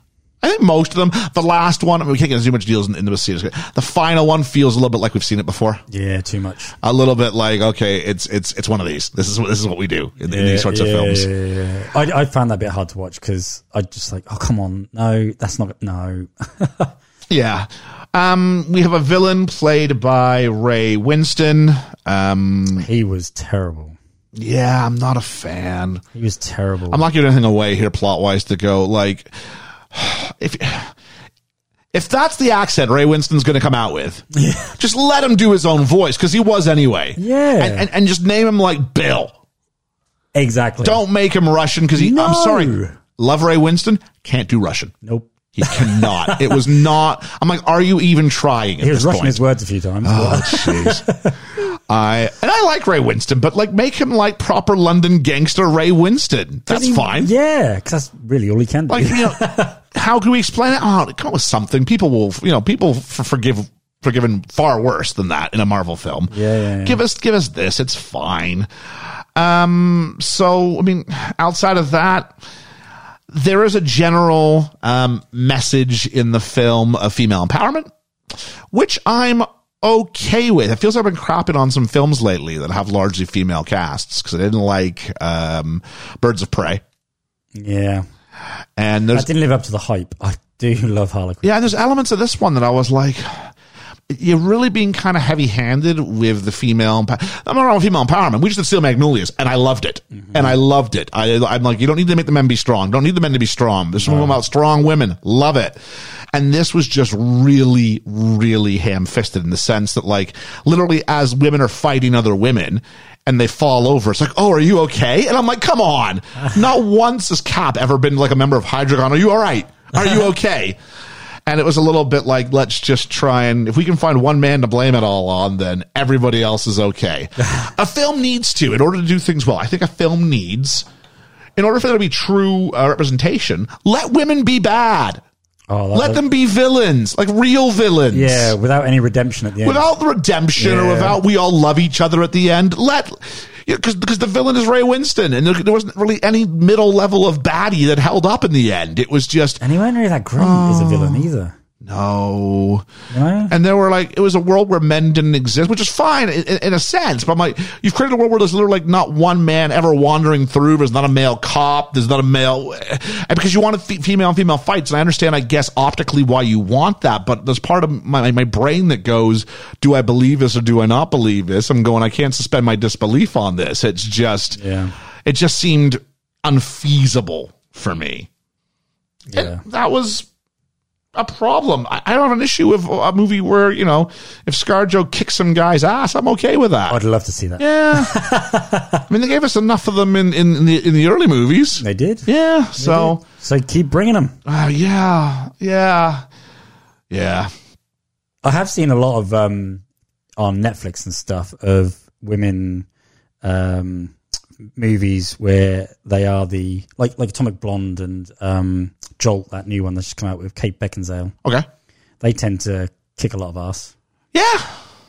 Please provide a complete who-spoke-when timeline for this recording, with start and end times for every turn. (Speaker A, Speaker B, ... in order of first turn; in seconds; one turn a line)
Speaker A: 0.4-5.8
Speaker B: 5.9-6.7
Speaker A: 6.8-11.3
Speaker B: 10.2-16.9
Speaker A: 17.3-22.9
Speaker B: 22.8-23.9
Speaker A: 24.3-26.0
Speaker B: 26.1-27.0
Speaker A: 26.9-29.3
Speaker A: 29.9-30.9
Speaker A: 31.9-34.2
Speaker B: 34.3-34.7
Speaker A: 34.8-39.3
Speaker B: 37.2-37.9
Speaker B: 40.3-41.0
Speaker A: 40.8-44.9
Speaker B: 42.0-42.9
Speaker B: 45.0-46.6
Speaker A: 45.5-49.4
Speaker B: 48.8-51.3
Speaker A: 50.0-51.0
Speaker A: 51.7-57.3
Speaker B: 56.7-59.8
Speaker A: 58.9-66.3
Speaker B: 66.3-67.0
Speaker A: 66.8-68.7
Speaker A: 69.3-72.3
Speaker A: 73.3-77.9
Speaker A: 78.7-86.8
Speaker B: 87.5-88.0
Speaker A: 88.8-89.3
Speaker B: 89.1-91.6
Speaker A: 91.4-93.5
Speaker A: 94.1-105.8
Speaker B: 100.1-100.5
Speaker B: 104.0-104.3
Speaker A: 106.3-120.8
Speaker A: 121.5-130.8
Speaker A: 131.6-135.2
Speaker B: 135.7-136.2
Speaker A: 135.9-138.5
Speaker B: 138.1-139.9
Speaker A: 139.6-149.6
Speaker B: 140.6-141.2
Speaker B: 149.6-151.6
Speaker A: 150.4-151.3
Speaker A: 151.8-152.8
Speaker B: 153.1-153.5
Speaker A: 153.5-174.6
Speaker B: 174.6-174.9
Speaker A: 175.2-178.3
Speaker B: 179.3-179.6
Speaker A: 179.3-180.3
Speaker A: 181.1-187.0
Speaker B: 186.9-189.0
Speaker A: 187.6-188.1
Speaker A: 189.1-193.2
Speaker B: 191.8-194.3
Speaker A: 194.4-196.2
Speaker A: 197.1-197.5
Speaker B: 198.4-199.8
Speaker B: 200.4-202.9
Speaker B: 203.4-204.1
Speaker B: 204.8-211.3
Speaker B: 212.2-213.9
Speaker A: 214.3-214.7